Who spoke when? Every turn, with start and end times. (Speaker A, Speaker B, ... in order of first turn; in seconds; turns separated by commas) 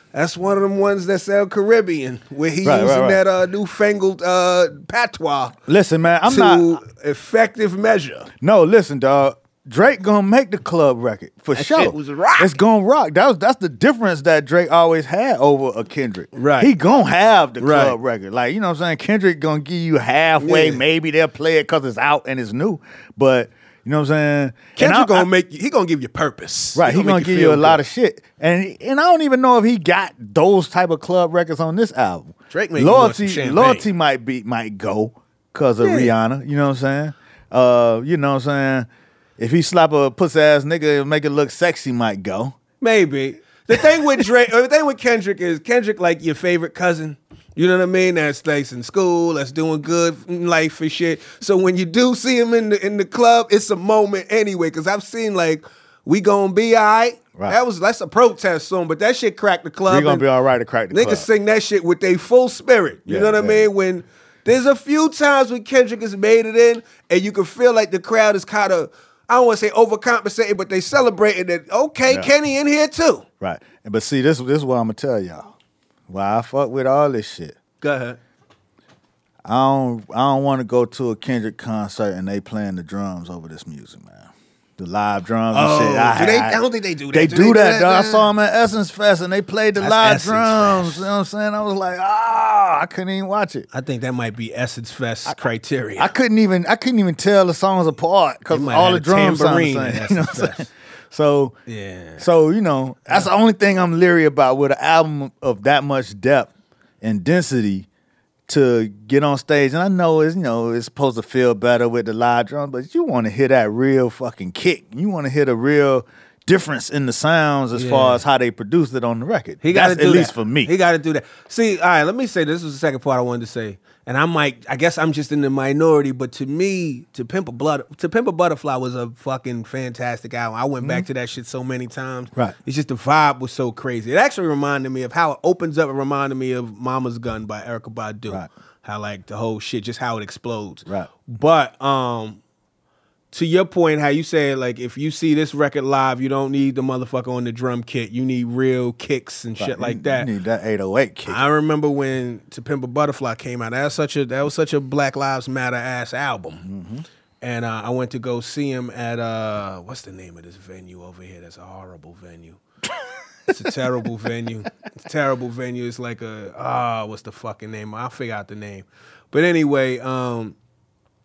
Speaker A: 0.1-5.6, Speaker B: 2.6-3.2, Speaker B: 5.7-6.8, Speaker A: 6.3-8.3, Speaker B: 8.4-25.3, Speaker A: 11.5-12.6, Speaker A: 16.3-16.7, Speaker A: 17.6-18.0, Speaker A: 20.4-20.8, Speaker A: 24.8-27.8, Speaker B: 26.8-42.6, Speaker A: 32.5-33.9, Speaker A: 35.8-36.1, Speaker A: 42.8-60.3, Speaker B: 43.7-44.2, Speaker B: 59.9-61.3, Speaker A: 60.9-73.2, Speaker B: 63.1-63.7, Speaker B: 72.1-72.3, Speaker B: 73.4-75.5, Speaker B: 76.1-77.6, Speaker A: 77.8-78.2, Speaker B: 79.5-93.7, Speaker A: 85.5-88.3, Speaker A: 89.8-91.1, Speaker A: 93.7-96.1, Speaker B: 96.0-101.6, Speaker A: 98.5-100.7, Speaker A: 101.7-102.3, Speaker B: 102.2-106.5, Speaker B: 107.0-107.9, Speaker B: 108.5-120.7, Speaker A: 117.8-118.2, Speaker A: 119.6-142.4, Speaker B: 130.8-131.1, Speaker A: 143.3-150.3, Speaker B: 149.6-151.4, Speaker A: 151.3-156.7, Speaker B: 156.6-157.1, Speaker A: 157.4-162.6, Speaker A: 163.5-170.6